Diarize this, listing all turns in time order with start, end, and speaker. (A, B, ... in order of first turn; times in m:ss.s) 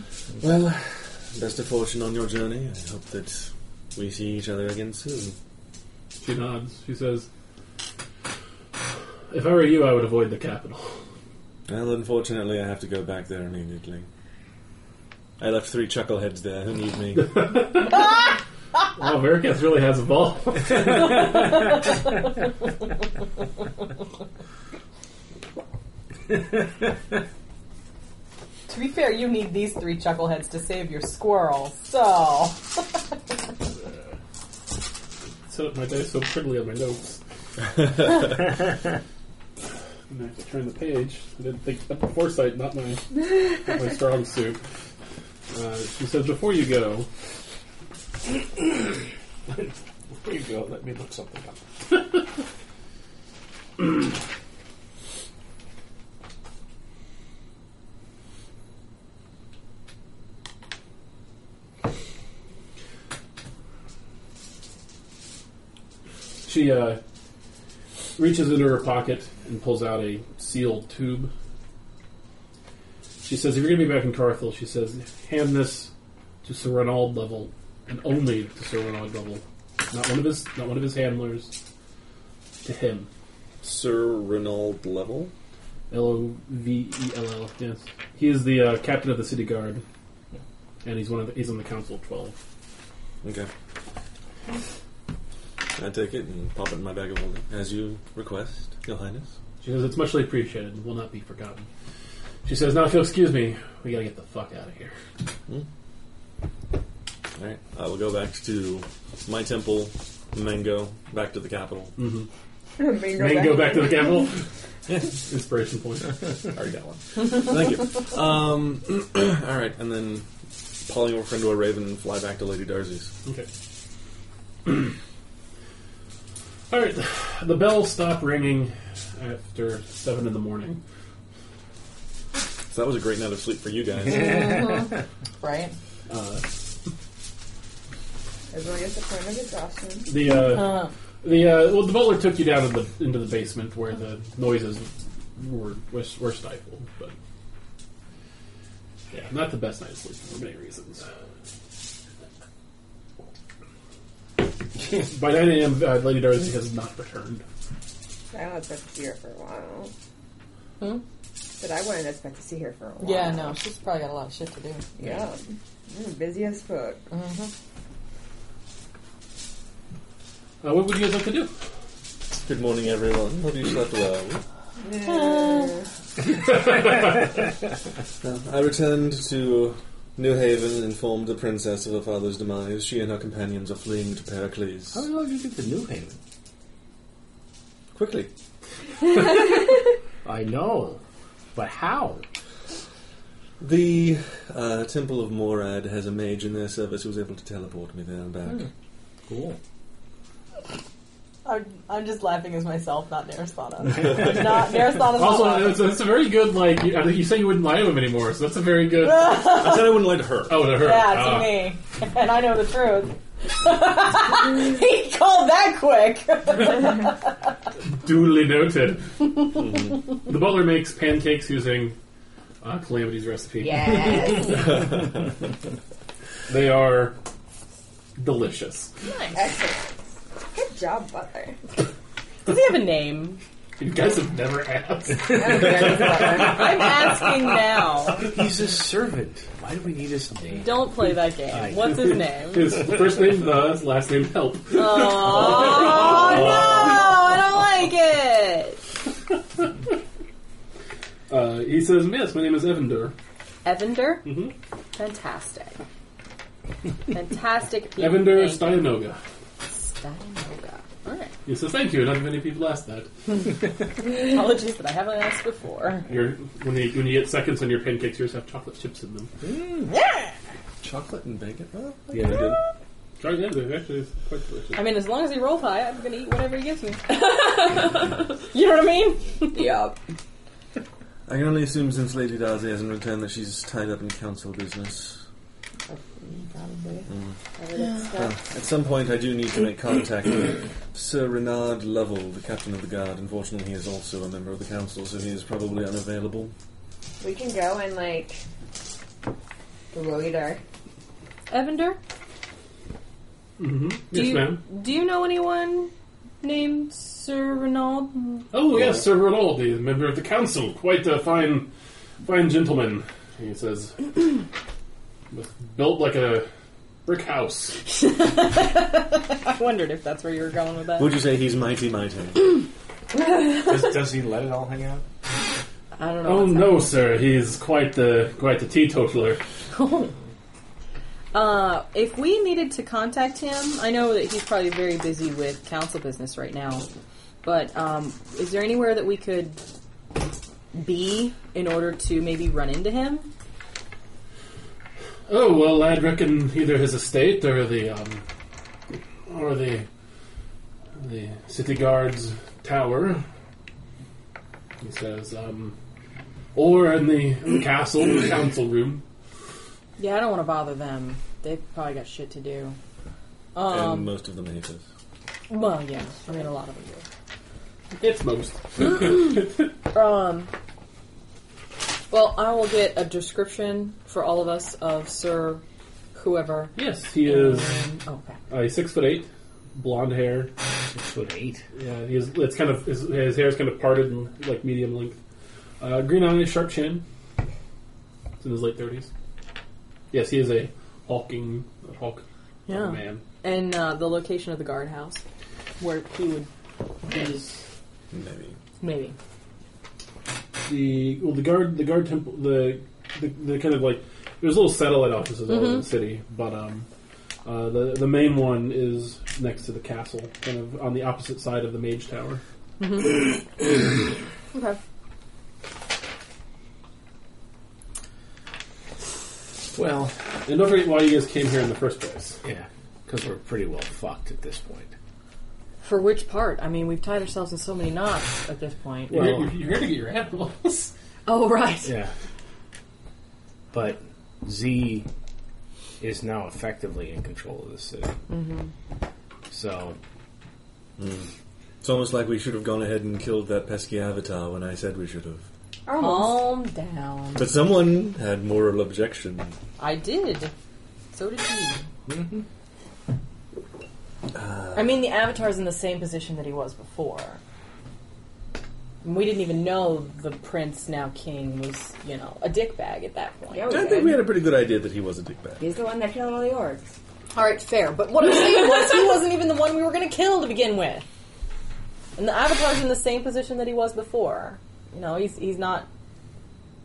0:00.4-0:05.4 A
0:06.2-0:07.3 B
0:09.3-0:11.0 B
0:11.7-0:14.1 A
0:15.4-0:17.5 A
0:17.1-0:18.3 B
0:18.9-0:21.7 B
0:28.7-0:32.8 C
0:35.5-0:37.2 B
0:40.1-0:44.6 B
0:45.5-0:47.1 B
0:49.5-0:51.6 D
1:06.4-1:07.0 B
1:08.2-1:11.3 B
1:13.2-1:15.9 B
1:16.4-1:21.5 B
1:22.6-1:23.1 B
1:23.6-1:25.3 A
1:25.9-1:29.8 B
1:30.8-1:32.3 B
1:33.2-1:33.5 A
1:35.8-1:39.3 A
1:39.6-1:41.7 B
1:42.4-1:44.9 B
1:47.4-1:51.9 A
1:52.0-1:52.3 B
1:52.8-1:54.2 E
1:53.0-1:54.4 B
1:55.0-1:57.0 B
1:57.1-2:00.3 A
2:00.8-2:03.1 A
2:04.6-2:04.9 B
2:06.7-2:10.8 B
2:12.7-2:14.4 A
2:14.1-2:15.8 C
2:16.1-2:16.4 B
2:18.5-2:20.1 E
2:20.0-2:27.1 B
2:20.4-2:20.9 C
2:29.1-2:31.0 B
2:34.8-2:37.4 B
2:38.3-2:39.9 E
2:41.6-2:43.6 E
2:43.0-2:44.8 C
2:45.0-2:47.0 E
2:47.1-2:47.5 C
2:50.6-2:51.5 B
2:52.3-2:54.4 A
2:54.8-2:55.9 E
2:55.0-2:55.7 C
2:56.5-2:57.1 B
2:58.2-3:05.1 A
3:04.9-3:06.2 D
3:07.9-3:08.3 A
3:10.2-3:11.0 D
3:11.5-3:12.2 D
3:13.6-3:18.7 A
3:19.3-3:19.6 D
3:21.4-3:25.8 C
3:25.0-3:29.4 B
3:29.0-3:30.0 C
3:29.4-3:30.6 A
3:30.5-3:31.6 B
3:30.7-3:37.3 C
3:38.0-3:39.3 B
3:39.5-3:40.0 A
3:40.2-3:42.0 B
3:42.6-3:44.5 B
3:43.6-3:44.9 E
3:46.5-3:47.2 B
3:48.2-3:48.9 B
3:49.0-3:49.4 C
3:49.3-3:51.6 E
3:52.4-3:53.4 C
3:53.8-3:56.8 B
3:55.2-3:56.7 E
3:56.3-3:58.2 C
3:58.2-4:00.9 D
4:00.6-4:02.8 C
4:01.5-4:02.0 D
4:01.8-4:07.0 B
4:04.7-4:08.8 C
4:11.3-4:13.1 B
4:13.6-4:14.3 C
4:14.2-4:14.5 B
4:14.9-4:15.8 C
4:17.1-4:18.9 C
4:18.0-4:19.2 B
4:19.6-4:21.3 C
4:21.4-4:23.1 B
4:24.0-4:26.1 C
4:26.1-4:29.3 B
4:29.4-4:29.9 D
4:29.9-4:30.3 C
4:30.8-4:32.6 A
4:32.1-4:32.6 D
4:33.2-4:34.8 B
4:34.8-4:39.7 C
4:39.5-4:40.0 E
4:41.3-4:45.2 A
4:45.9-4:48.3 E
4:47.1-4:47.4 A
4:47.6-4:48.1 C
4:48.1-4:56.5 A
4:57.2-4:58.4 E
4:59.9-5:00.6 E
5:01.5-5:02.0 C
5:03.6-5:04.6 B
5:04.1-5:08.5 C
5:08.5-5:11.7 B
5:12.2-5:14.4 B
5:15.3-5:16.5 B
5:17.0-5:17.8 B
5:17.8-5:21.2 C
5:21.0-5:22.6 A
5:23.5-5:25.0 D
5:26.0-5:26.9 C
5:26.2-5:29.4 B
5:29.7-5:30.1 C
5:31.3-5:36.8 C
5:37.4-5:39.6 C
5:40.7-5:43.3 C
5:45.3-5:48.2 B
5:49.3-5:49.9 B
5:51.0-5:53.2 B
5:54.8-5:55.7 B
5:56.5-5:59.0 B
6:00.0-6:02.8 C
6:03.5-6:04.1 C
6:03.6-6:04.8 A
6:05.5-6:07.0 C
6:08.0-6:09.6 B
6:09.9-6:10.5 C
6:12.1-6:15.6 C
6:16.1-6:18.4 C
6:16.8-6:17.8 B
6:18.5-6:20.5 B
6:20.9-6:21.6 D
6:21.7-6:25.2 B
6:25.8-6:27.0 B
6:28.4-6:29.1 B
6:30.1-6:33.2 B
6:32.7-6:35.2 C
6:35.8-6:36.5 C
6:37.1-6:37.4 C
6:37.1-6:37.6 B
6:38.1-6:38.6 A
6:38.8-6:39.1 C
6:40.6-6:46.9 B
6:45.5-6:45.8 C
6:47.4-6:52.4 B
6:52.8-6:53.2 C
6:54.5-6:54.8 C
6:59.7-7:00.2 D
7:00.4-7:02.4 B
7:02.4-7:04.9 D
7:05.8-7:09.3 C
7:09.1-7:09.5 D
7:09.1-7:10.9 B
7:11.3-7:11.9 C
7:11.8-7:12.1 D
7:13.7-7:15.1 D
7:16.0-7:18.2 D
7:18.3-7:18.7 C
7:19.5-7:20.0 D
7:21.0-7:21.3 A
7:21.8-7:25.5 A
7:25.8-7:26.5 E
7:26.0-7:27.5 C
7:27.3-7:29.6 A
7:29.8-7:30.5 C
7:31.1-7:31.8 C
7:32.1-7:32.4 D
7:34.3-7:34.8 A
7:34.7-7:37.4 C
7:39.0-7:43.7 C
7:43.5-7:44.3 E
7:43.7-7:45.6 A
7:45.6-7:46.9 E
7:47.3-7:51.0 C
7:52.2-7:55.9 C